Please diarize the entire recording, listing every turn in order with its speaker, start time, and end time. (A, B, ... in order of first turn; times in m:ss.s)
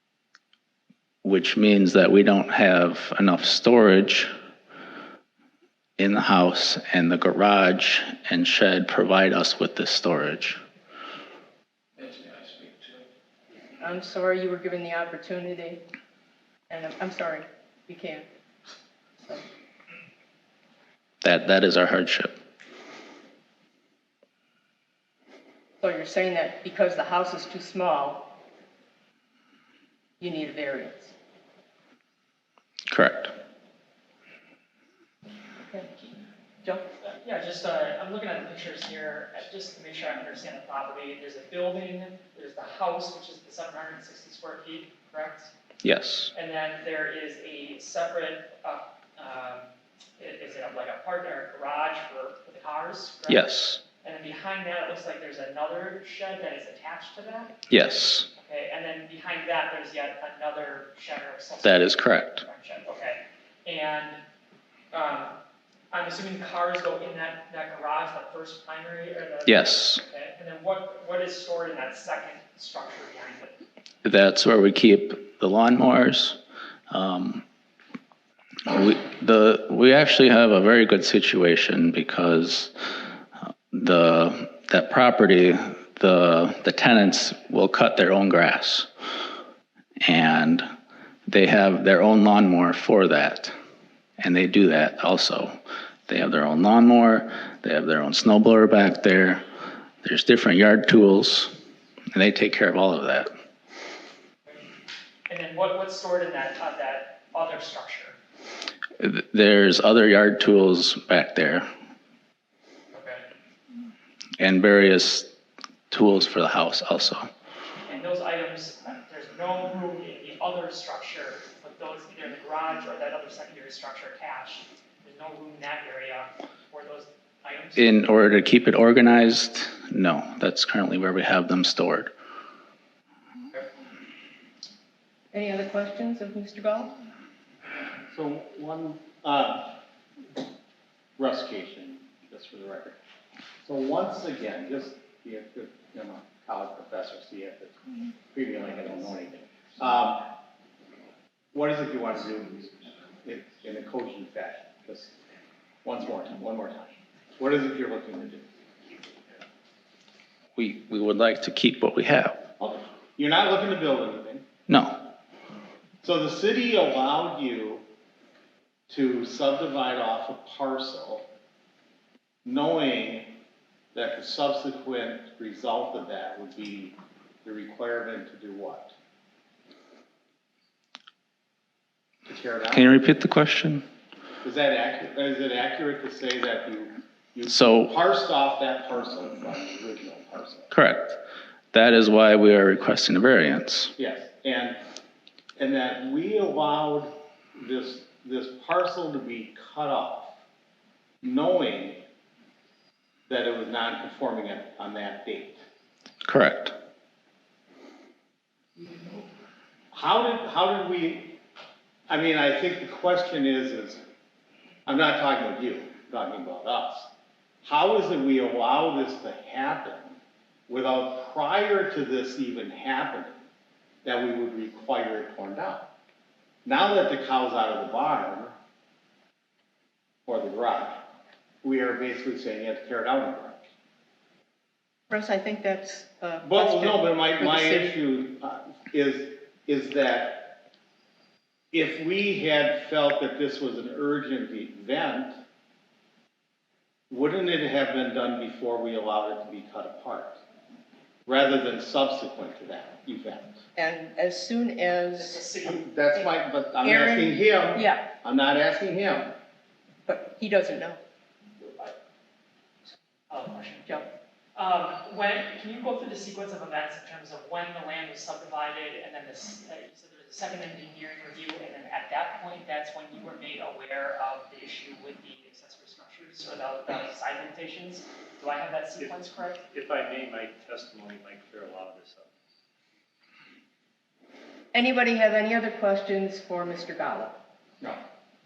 0:01.2-0:04.3 A
0:06.0-0:10.6 A
0:12.0-0:12.7 B
0:13.8-0:15.8 C
0:16.7-0:18.3 C
0:21.2-0:22.4 A
0:25.8-0:28.3 C
0:30.2-0:31.1 C
0:32.9-0:33.3 A
0:35.6-0:36.8 C
0:37.0-0:45.5 D
0:45.8-0:46.3 A
0:46.3-0:57.6 D
0:53.3-0:53.8 A
0:57.7-0:58.3 A
0:58.4-1:04.2 D
1:01.6-1:02.4 A
1:04.9-1:05.4 D
1:05.9-1:13.6 D
1:09.5-1:10.0 A
1:14.0-1:16.4 A
1:16.9-1:17.4 A
1:18.7-1:22.7 A
1:23.7-1:28.9 A
1:30.0-1:30.7 A
1:31.3-1:33.5 A
1:34.2-1:35.6 A
1:36.1-1:39.4 A
1:40.0-1:41.6 A
1:42.1-1:43.3 A
1:45.3-1:48.2 D
1:49.0-1:51.7 A
1:52.9-1:53.3 D
1:54.4-1:55.3 A
1:55.9-1:57.3 A
1:57.9-2:07.9 D
2:07.8-2:12.1 A
2:15.3-2:17.0 C
2:18.1-2:19.8 E
2:21.2-2:23.0 E
2:23.6-2:30.3 E
2:31.5-2:35.1 E
2:35.8-2:38.4 E
2:40.6-2:42.4 A
2:42.6-2:44.4 E
2:44.7-2:45.0 A
2:46.0-2:47.8 E
2:48.9-2:51.3 E
2:52.4-2:53.4 E
2:53.9-2:58.9 E
3:02.3-3:03.0 E
3:02.7-3:03.8 A
3:04.4-3:10.7 E
3:07.5-3:07.9 A
3:10.7-3:11.2 A
3:11.7-3:13.9 A
3:14.0-3:14.8 E
3:15.6-3:20.4 E
3:21.2-3:22.0 E
3:23.3-3:25.6 E
3:26.2-3:26.8 A
3:29.9-3:31.4 E
3:32.1-3:34.0 E
3:34.9-3:37.1 E
3:37.6-3:40.2 E
3:40.7-3:43.4 E
3:44.0-3:45.9 E
3:46.6-3:48.6 E
3:50.3-3:51.0 E
3:51.6-3:53.6 E
3:55.1-3:57.9 C
3:56.4-4:00.6 E
4:01.7-4:05.4 E
4:07.1-4:10.4 E
4:11.3-4:13.6 E
4:13.8-4:15.4 C
4:15.2-4:15.9 D
4:15.6-4:19.3 E
4:16.8-4:18.0 C
4:20.1-4:21.0 C
4:23.3-4:39.6 D
4:39.7-4:42.3 B
4:44.7-4:47.4 C